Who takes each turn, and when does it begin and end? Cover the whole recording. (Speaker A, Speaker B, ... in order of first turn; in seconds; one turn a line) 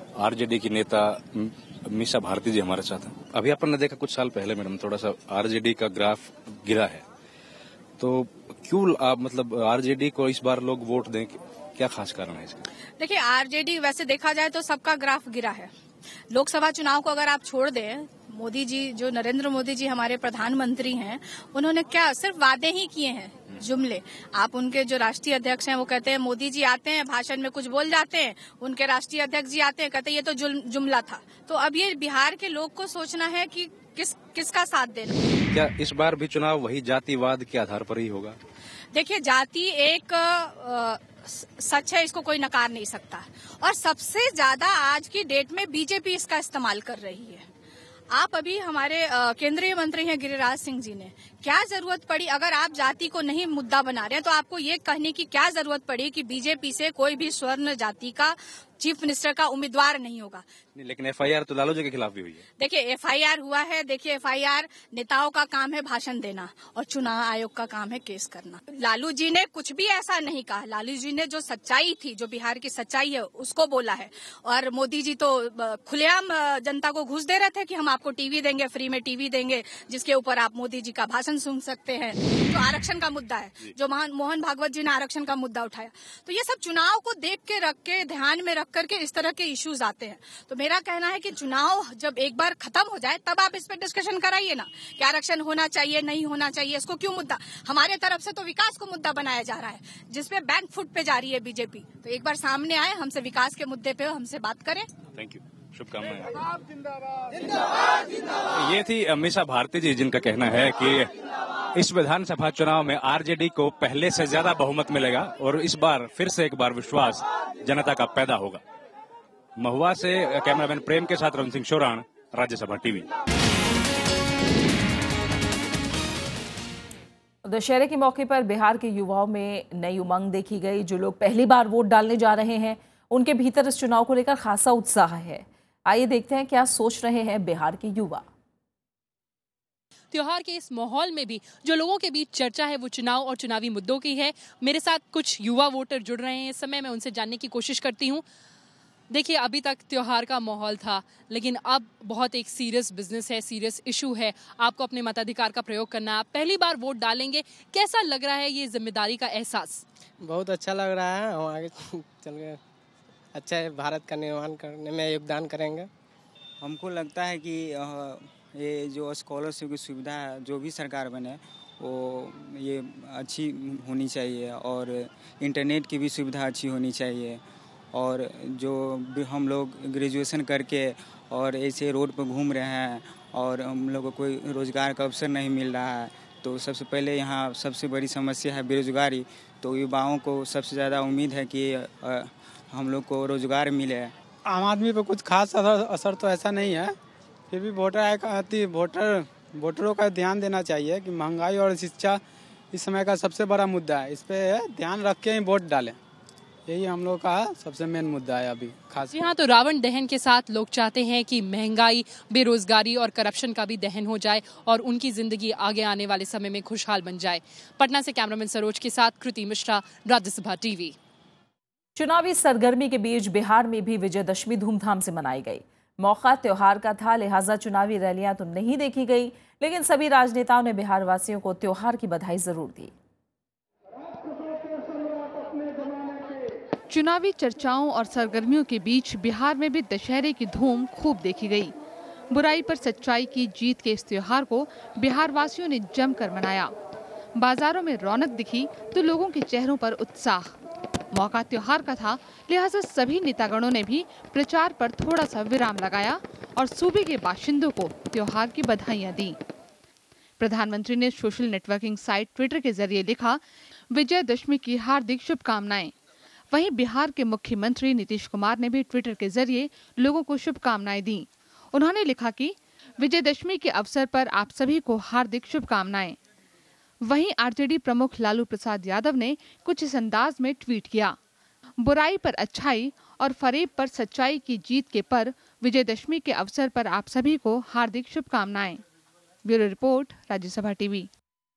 Speaker A: 0.2-7.0
Speaker A: 8.0-12.6
Speaker B: 13.0-15.7
Speaker B: 16.3-35.1
Speaker A: 35.5-38.4
Speaker B: 38.9-47.5
Speaker B: 48.1-60.4
Speaker A: 60.8-62.4
Speaker B: 62.6-104.9
Speaker A: 105.1-106.3
Speaker A: 108.5-111.1
Speaker A: 111.7-118.6
Speaker A: 119.6-123.1
Speaker C: 127.4-138.2
Speaker D: 140.1-148.2
Speaker D: 149.1-159.8
Speaker E: 160.2-162.6
Speaker E: 163.3-165.9
Speaker F: 166.6-194.1
Speaker G: 194.4-196.9
Speaker G: 197.5-202.2
Speaker G: 202.7-206.0
Speaker G: 206.7-209.2
Speaker D: 209.1-220.9
Speaker C: 222.0-232.9
Speaker H: 236.9-241.7
Speaker H: 242.3-246.7
Speaker H: 247.3-250.5
Speaker H: 251.1-259.4
Speaker H: 260.4-265.9
Speaker H: 266.5-276.2
Speaker H: 277.0-281.2
Speaker H: 281.8-288.8
Speaker H: 289.4-291.1